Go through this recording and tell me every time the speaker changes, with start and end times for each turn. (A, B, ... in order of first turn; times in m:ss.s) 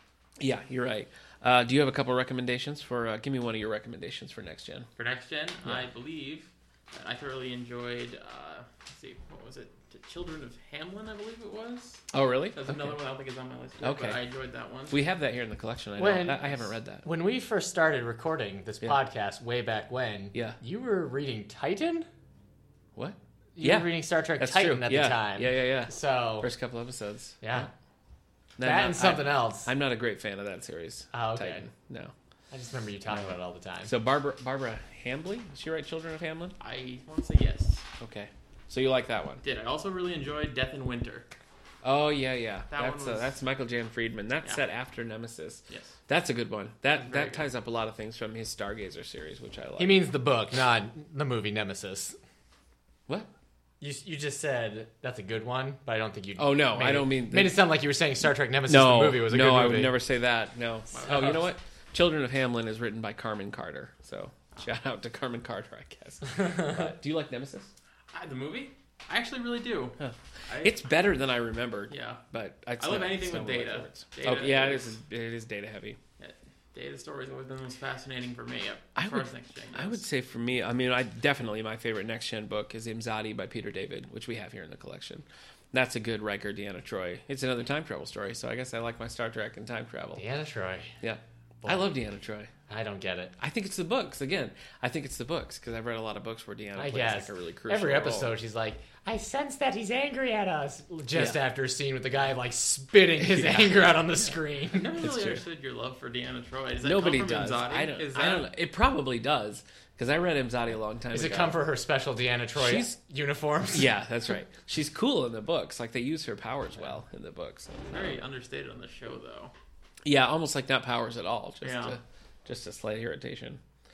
0:00.4-0:04.9 A
0:05.0-0:15.0 B
0:12.1-0:13.0 A
0:13.8-0:14.2 A
0:14.9-0:17.0 A
0:16.0-0:22.1 C
0:23.0-0:27.7 A
0:23.6-0:26.5 C
0:27.4-0:27.7 C
0:28.6-0:32.1 A
0:28.6-0:29.7 C
0:31.1-0:31.7 C
0:32.5-0:33.9 C
0:33.1-0:36.6 A
0:36.6-0:37.8 B
0:38.0-0:39.4 A
0:39.4-0:41.3 B
0:41.8-0:50.0 A
0:42.7-0:43.3 B
0:45.7-0:46.0 B
0:47.0-0:47.5 B
0:49.8-0:52.2 C
0:53.8-1:00.0 C
0:56.4-0:57.6 A
0:58.7-1:07.7 A
1:00.9-1:01.5 B
1:08.1-1:10.8 B
1:10.0-1:16.0 A
1:11.9-1:12.2 B
1:12.8-1:15.0 B
1:16.2-1:20.0 B
1:19.0-1:30.2 A
1:30.2-1:31.0 C
1:31.0-1:32.5 A
1:31.6-1:31.9 C
1:32.7-1:33.4 C
1:33.4-1:38.3 A
1:36.8-1:45.0 C
1:41.1-1:41.4 A
1:43.2-1:43.9 A
1:44.7-1:48.5 B
1:45.0-1:45.4 A
1:46.8-1:51.6 A
1:51.1-1:53.9 C
1:52.6-1:53.0 A
1:53.7-1:58.2 A
1:57.9-1:59.5 B
2:00.0-2:03.6 A
2:01.6-2:02.0 B